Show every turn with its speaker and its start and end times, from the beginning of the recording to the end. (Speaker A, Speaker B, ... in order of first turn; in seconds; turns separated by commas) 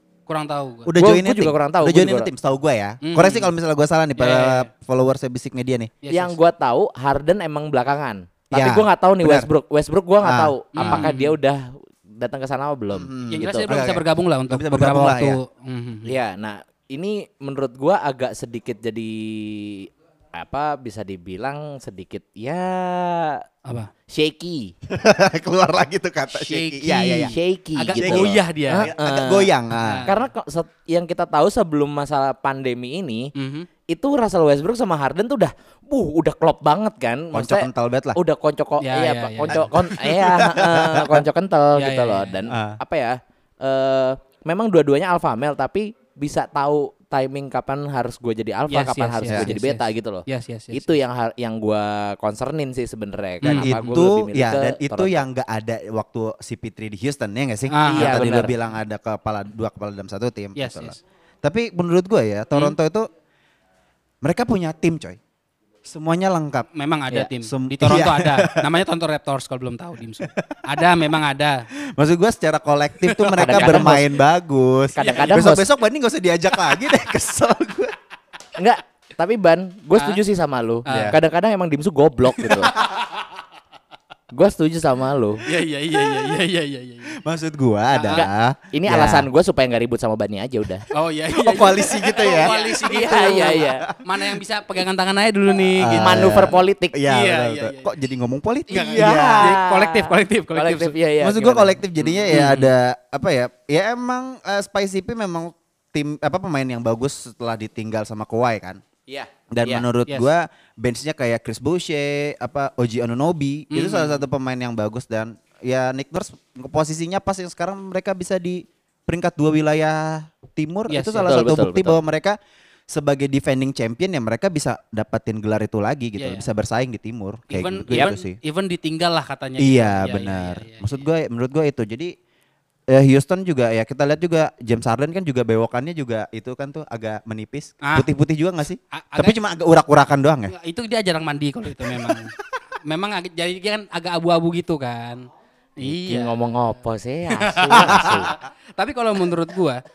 Speaker A: 0.3-0.9, Speaker B: 0.8-5.9, Speaker C: 0.9-2.3, Speaker A: 3.0-3.5, Speaker A: 4.2-4.7, Speaker A: 6.0-6.4, Speaker C: 6.1-13.7, Speaker B: 8.5-9.5, Speaker B: 10.2-11.1, Speaker A: 10.8-11.4, Speaker B: 12.9-15.4, Speaker A: 13.3-16.1, Speaker C: 16.1-23.4, Speaker A: 23.6-23.9, Speaker C: 24.1-24.7, Speaker B: 24.9-27.3, Speaker A: 26.3-28.9, Speaker C: 27.3-29.5, Speaker B: 28.0-30.1, Speaker A: 29.8-30.2, Speaker C: 30.1-33.3, Speaker A: 33.4-33.7, Speaker C: 33.9-55.2, Speaker B: 37.3-38.2, Speaker A: 38.8-39.7, Speaker B: 39.5-41.2, Speaker A: 41.8-42.5, Speaker B: 42.5-42.8, Speaker A: 48.7-50.9, Speaker A: 53.4-53.8, Speaker B: 53.4-63.1, Speaker A: 57.7-58.4, Speaker C: 57.8-58.5, Speaker A: 60.5-61.0, Speaker B: 64.2-65.2, Speaker B: 65.8-66.7, Speaker A: 66.7-71.6, Speaker B: 67.4-68.7, Speaker B: 70.4-70.8, Speaker B: 72.0-77.9, Speaker C: 73.3-74.1, Speaker A: 73.4-74.0, Speaker C: 75.0-75.7, Speaker A: 75.0-75.5, Speaker C: 78.6-82.7, Speaker A: 79.9-80.2, Speaker A: 80.9-81.2, Speaker B: 80.9-81.2, Speaker A: 82.4-82.7, Speaker C: 84.3-85.4, Speaker A: 85.5-87.2, Speaker B: 87.2-89.3, Speaker A: 87.9-88.3, Speaker C: 88.1-90.8, Speaker A: 90.9-96.5, Speaker B: 91.3-92.5, Speaker C: 92.2-93.8, Speaker B: 93.9-94.4, Speaker B: 95.6-99.6, Speaker C: 96.0-97.0, Speaker A: 97.1-97.9, Speaker A: 98.7-100.9, Speaker C: 98.9-102.3, Speaker B: 101.2-108.8, Speaker A: 102.3-102.7, Speaker C: 109.1-109.9, Speaker B: 109.5-122.4, Speaker A: 113.7-114.2, Speaker A: 120.9-121.3, Speaker C: 121.2-122.0, Speaker B: 122.9-128.4, Speaker A: 126.2-126.5, Speaker A: 127.5-131.0, Speaker B: 129.6-132.1, Speaker B: 132.9-140.5, Speaker A: 138.9-139.4, Speaker A: 140.5-142.3, Speaker B: 141.9-142.2, Speaker A: 142.9-145.2, Speaker A: 145.8-146.5, Speaker C: 145.8-148.3, Speaker A: 147.4-149.8, Speaker B: 147.8-148.3